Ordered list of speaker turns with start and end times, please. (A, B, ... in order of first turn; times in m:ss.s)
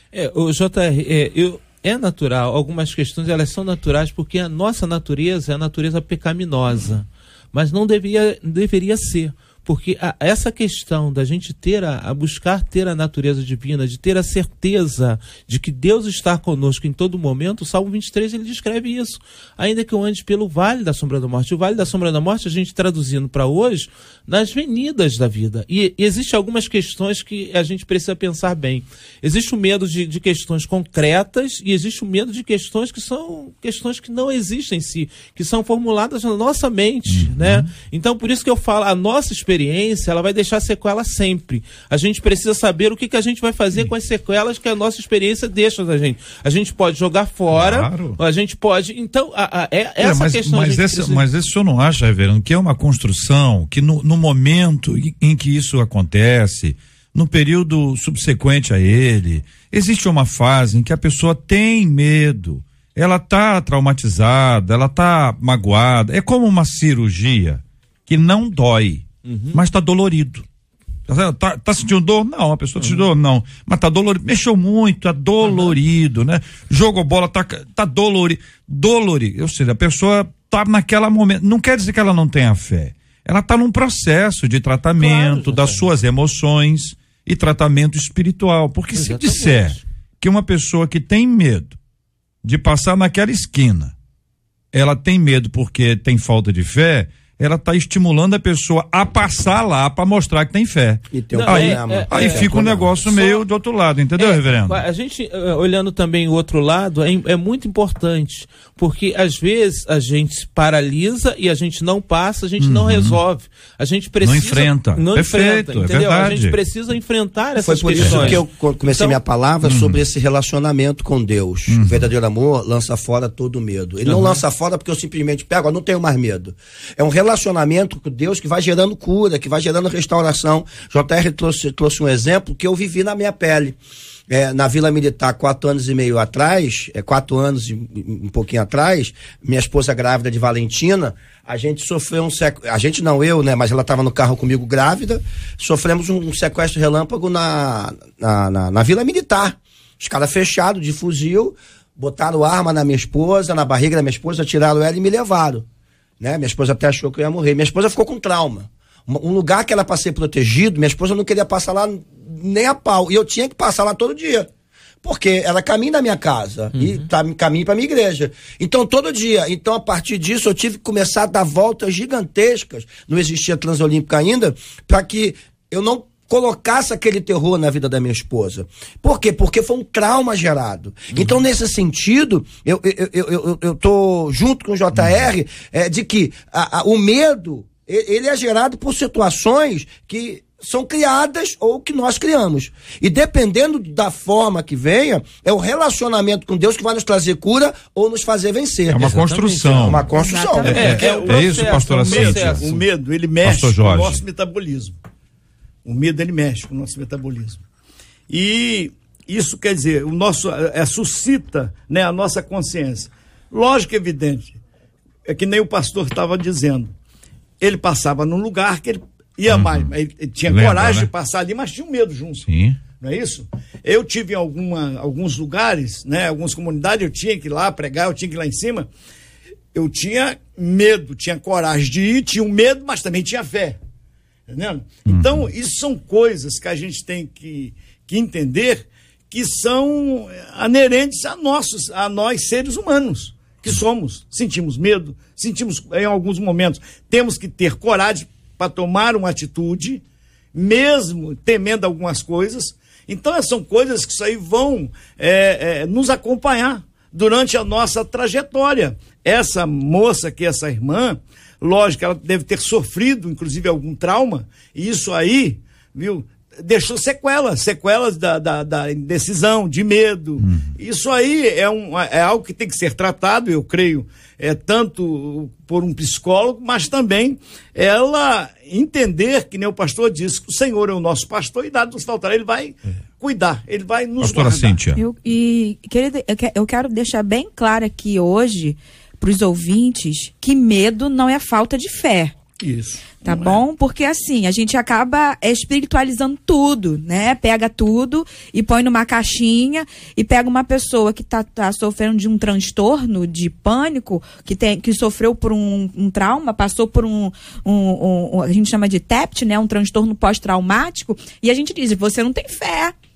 0:00.1-0:51.2 A
0:37.1-0:37.7 B
0:47.5-0:48.2 B
0:50.0-1:10.4 B
1:09.3-1:09.6 A
1:11.1-1:31.8 B
1:12.8-1:13.1 A
1:15.4-1:15.8 A
1:25.0-1:25.9 A
1:29.0-1:29.8 A
1:32.4-1:33.9 B
1:34.7-1:44.8 B
1:41.1-1:42.9 C
1:41.3-1:43.4 A
1:44.2-1:59.2 A
1:52.6-1:53.2 B
1:54.2-1:56.6 B
1:57.6-2:13.8 C
1:58.0-1:58.4 B
1:59.6-2:00.0 B
2:01.7-2:02.1 B
2:04.1-2:04.3 A
2:14.3-2:35.7 C
2:36.2-2:44.5 C
2:45.0-3:19.1 C
3:18.9-3:20.1 B
3:19.0-3:20.0 A
3:19.8-3:20.7 C
3:20.1-3:20.9 D
3:20.6-3:22.9 B
3:20.7-3:22.7 A
3:20.8-3:25.0 E
3:23.4-3:24.2 B
3:25.8-3:27.6 E
3:28.3-3:34.6 E
3:35.3-3:36.9 E
3:37.6-3:48.9 E
3:39.5-3:39.9 B
3:40.5-3:41.1 B
3:42.4-3:42.8 B
3:49.7-3:53.8 E
3:54.5-4:10.0 E
3:55.1-3:55.5 B
4:10.5-4:44.8 E
4:30.4-4:30.7 B
4:44.2-4:45.0 B
4:45.0-4:52.4 D
4:52.6-4:53.6 E
4:53.2-5:12.9 D